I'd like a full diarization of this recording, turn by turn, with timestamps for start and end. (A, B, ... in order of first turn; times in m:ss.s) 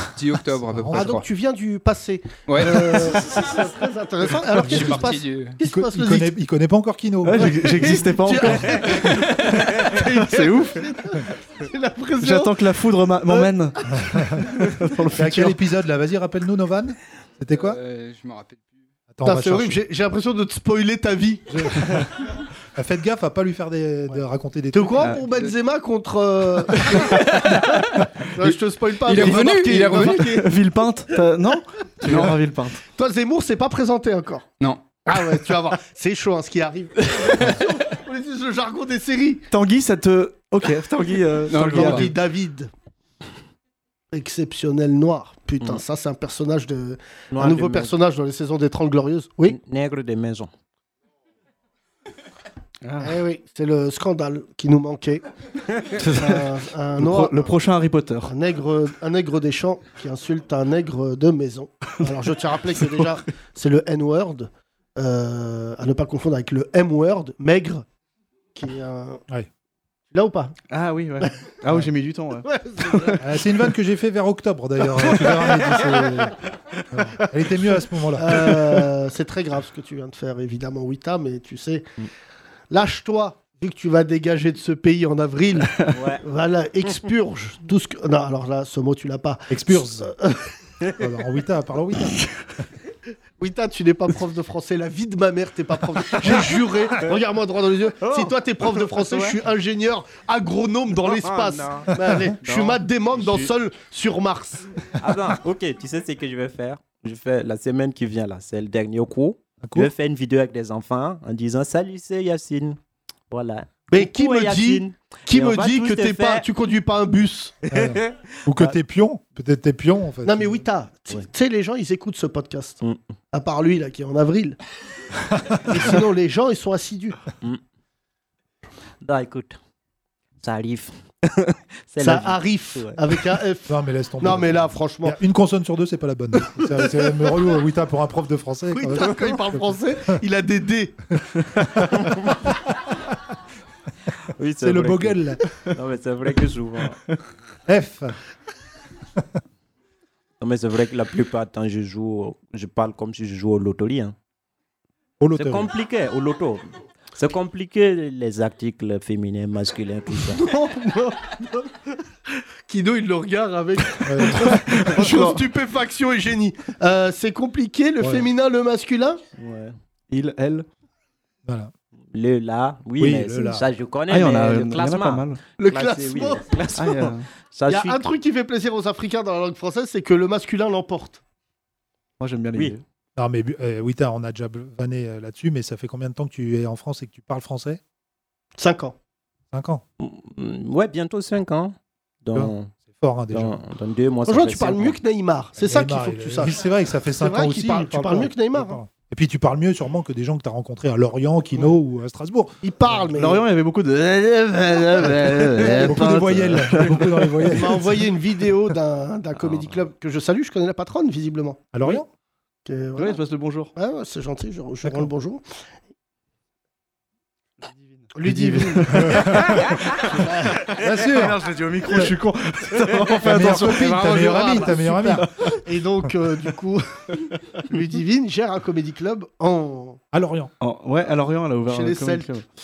0:00.2-0:01.2 A
0:00.5-0:01.2 B
0:00.9-0:06.3 C
0:02.5-0:03.3 A
0:04.4-0:05.6 A
0:04.6-0:08.6 B
0:07.2-0:10.9 D
0:07.6-0:12.5 C
0:12.2-0:15.6 D
0:14.0-0:14.5 B
0:15.1-0:17.8 B
0:17.5-0:18.7 A
0:19.1-0:19.8 B
0:19.2-0:22.0 C
0:21.5-0:22.2 B
0:22.7-0:25.2 B
0:24.7-0:30.5 C
0:29.0-0:30.3 A
0:29.1-0:32.8 D
0:32.1-0:32.4 A
0:32.9-0:34.5 C
0:35.0-0:39.4 C
0:39.5-0:42.2 D
0:41.5-0:42.1 A
0:41.6-0:42.7 C
0:44.1-0:49.6 C
0:47.3-0:48.0 E
0:49.5-0:50.5 E
0:52.8-0:53.2 D
0:53.0-0:55.2 C
0:55.9-0:58.3 D
0:56.2-0:57.5 C
0:58.2-1:07.8 C
1:08.5-1:09.2 C
1:10.1-1:10.6 C
1:10.7-1:13.2 D
1:12.4-1:13.2 C
1:13.2-1:16.4 B
1:14.9-1:16.3 C
1:16.9-1:18.6 B
1:18.1-1:21.9 C
1:22.7-1:30.5 C
1:25.9-1:26.2 E
1:29.5-1:30.1 B
1:31.0-1:32.2 B
1:33.4-1:44.7 C
1:41.1-1:41.9 E
1:42.4-1:43.5 E
1:45.0-1:52.8 E
1:49.6-1:49.9 B
1:53.3-1:56.4 E
1:53.9-1:57.6 C
1:57.7-1:58.7 E
1:57.7-2:00.6 B
2:00.2-2:02.8 C
2:03.3-2:04.6 C
2:05.3-2:05.8 B
2:05.7-2:07.2 C
2:09.0-2:09.6 E
2:10.4-2:13.0 E
2:12.0-2:15.2 C
2:13.7-2:20.2 B
2:16.7-2:17.2 C
2:18.7-2:21.0 C
2:21.7-2:22.7 B
2:24.4-2:27.0 E
2:24.6-2:25.4 B
2:27.7-2:28.2 B
2:30.4-2:34.1 E
2:35.2-2:35.7 B
2:35.3-2:40.4 E
2:40.2-2:41.9 C
2:42.7-2:49.2 C
2:44.0-2:45.1 B
2:44.3-2:45.4 D
2:48.0-2:48.2 B
2:49.4-2:49.7 E
2:50.1-2:50.6 D
2:51.4-2:51.7 B
2:52.1-2:58.0 E
2:53.0-2:53.6 B
2:54.1-2:55.4 D
2:55.6-2:56.4 C
2:56.8-2:57.3 D
2:57.7-3:01.2 C
3:02.2-3:02.8 D
3:03.2-3:07.8 B
3:08.6-3:09.0 C
3:09.5-3:09.8 B
3:10.0-3:12.7 E
3:12.3-3:13.6 B
3:13.3-3:15.0 E
3:14.3-3:16.6 C
3:15.6-3:22.6 B
3:17.2-3:18.8 C
3:22.6-3:23.4 C
3:23.0-3:27.9 D
3:24.7-3:26.2 C
3:25.8-3:28.0 B
3:27.5-3:32.0 C
3:31.7-3:32.1 B
3:32.6-3:33.2 C
3:33.0-3:33.7 D
3:33.7-3:35.4 C
3:34.8-3:35.1 B
3:38.0-3:44.6 D
3:38.1-3:39.4 C
3:38.9-3:39.7 B
3:40.1-3:40.7 C
3:40.8-3:42.1 B
3:43.2-3:45.3 B
3:43.4-3:50.0 C
3:50.1-3:50.5 B
3:50.6-3:52.5 D
3:51.7-3:52.3 C